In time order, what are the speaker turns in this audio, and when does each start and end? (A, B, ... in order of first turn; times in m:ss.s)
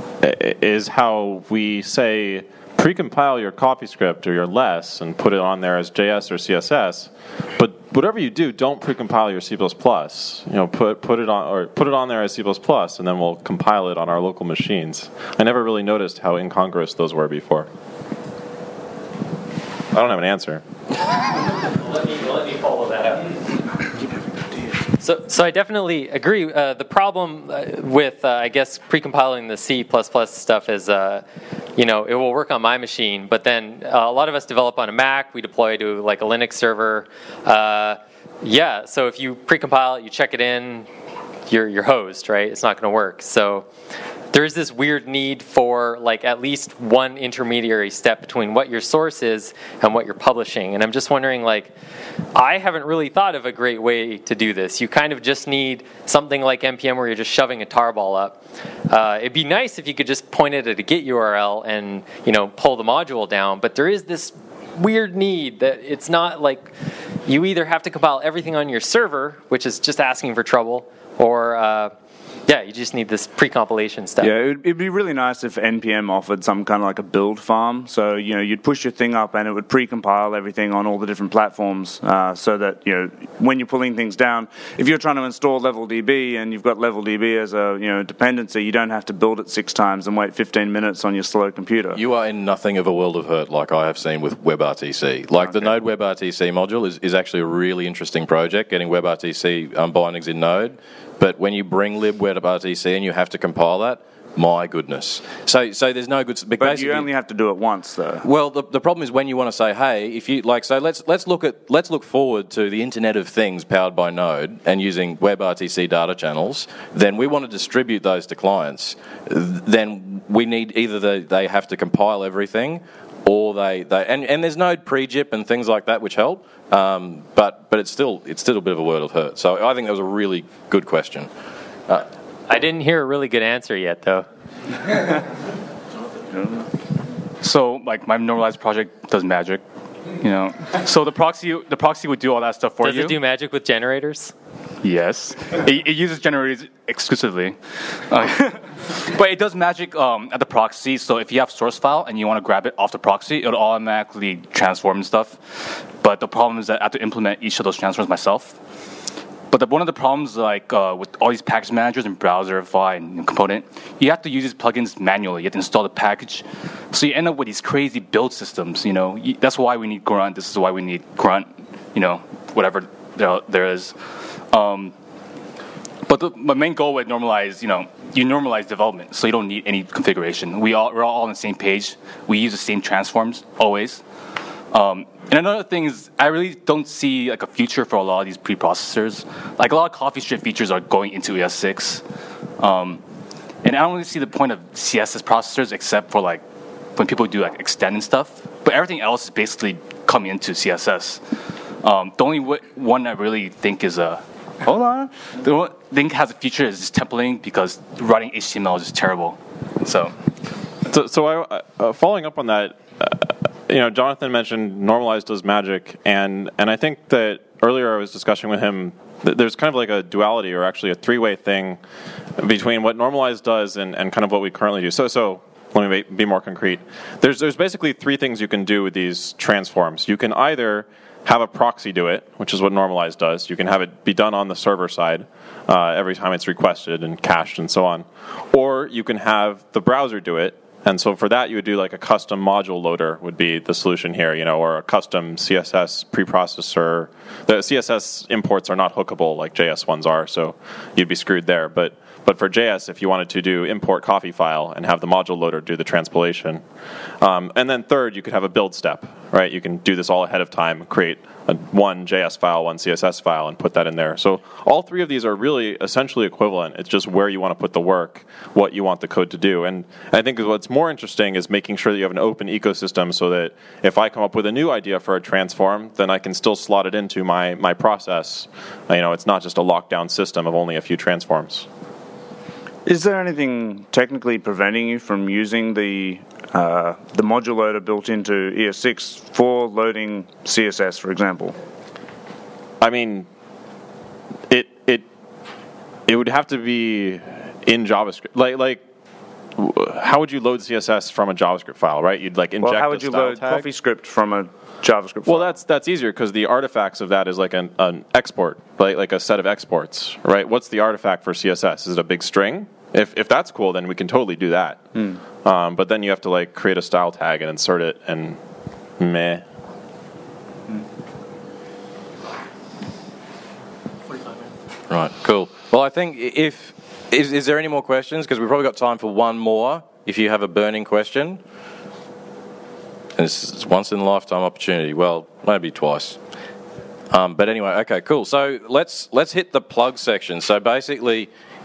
0:00.2-0:17.7 A
0:19.9-0:20.6 A
0:21.7-0:23.3 B
0:25.0-0:31.2 B
0:31.8-0:40.9 B
0:41.5-0:43.7 B
0:44.3-0:51.7 B
0:52.3-0:58.4 B
0:58.9-1:06.7 B
1:07.2-1:11.9 B
1:12.5-1:14.3 B
1:14.2-1:32.0 C
1:31.9-1:47.1 D
1:46.6-1:48.3 C
1:48.2-2:11.3 D
2:12.5-2:14.2 B
2:17.4-2:19.6 E
2:20.1-2:23.2 E
2:22.8-2:24.3 B
2:24.8-2:38.6 E
2:39.5-2:54.0 E
2:54.5-2:54.9 E
2:56.0-3:04.0 E
3:04.7-3:12.0 E
3:12.6-3:13.0 E
3:13.6-3:16.4 E
3:17.0-3:21.2 E
3:21.8-3:30.1 E
3:30.9-3:41.8 A
3:42.4-4:16.6 A
4:17.2-4:41.7 A
4:42.8-4:51.6 C
4:52.8-4:53.3 A
4:54.5-4:55.1 A
4:56.1-4:58.8 A
4:59.6-5:03.6 A
5:02.6-5:05.5 C
5:05.2-5:14.9 A
5:15.4-5:18.4 A
5:19.0-5:19.4 A
5:24.9-5:31.4 D
5:33.2-5:36.2 D
5:37.1-5:41.3 D